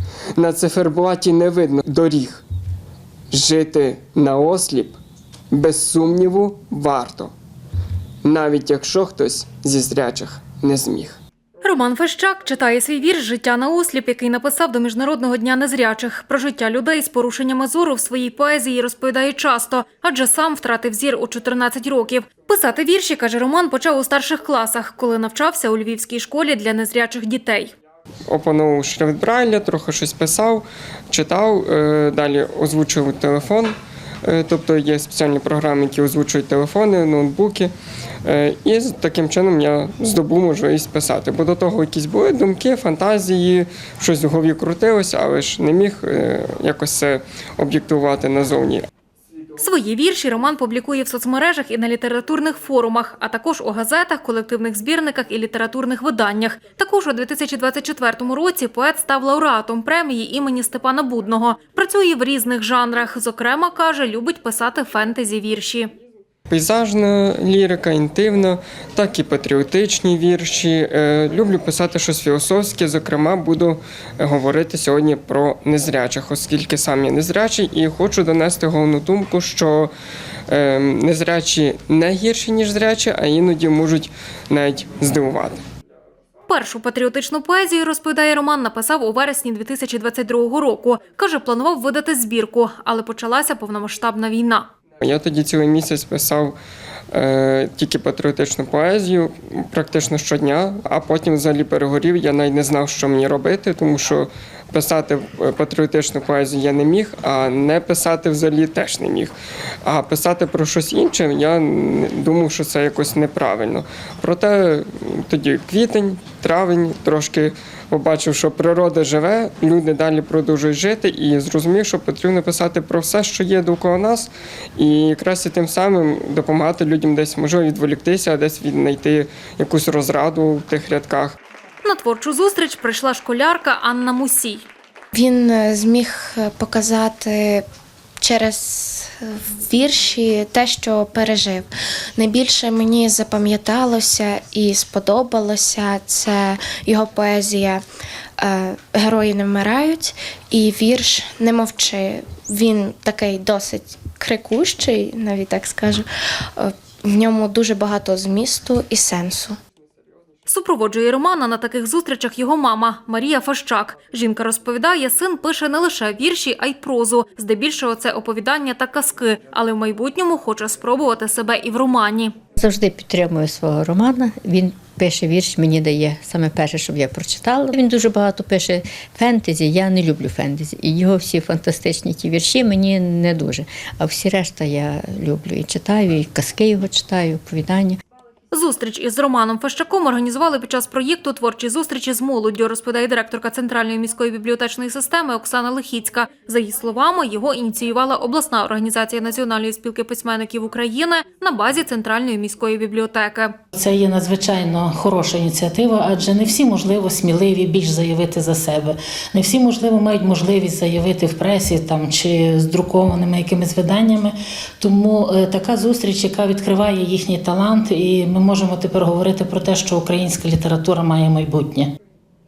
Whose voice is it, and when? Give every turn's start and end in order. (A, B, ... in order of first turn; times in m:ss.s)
0:00.4-0:02.4 A
0:03.3-0:05.0 A
0:05.5-0:07.3 A
0:08.2-0:11.2 A
0:11.6-0:27.7 B
0:28.3-0:37.7 A
0:38.2-0:48.9 A
0:49.6-1:05.9 B
1:06.5-1:19.9 A
1:20.5-1:25.6 A
1:26.5-1:34.7 B
1:35.0-1:36.6 A
1:37.1-2:11.4 A
2:11.8-2:14.6 B
2:15.1-2:17.6 C
2:18.2-2:27.8 C
2:28.4-2:39.6 C
2:40.5-2:52.3 B
2:52.6-3:08.0 D
3:08.5-3:23.6 B
3:23.7-3:41.9 E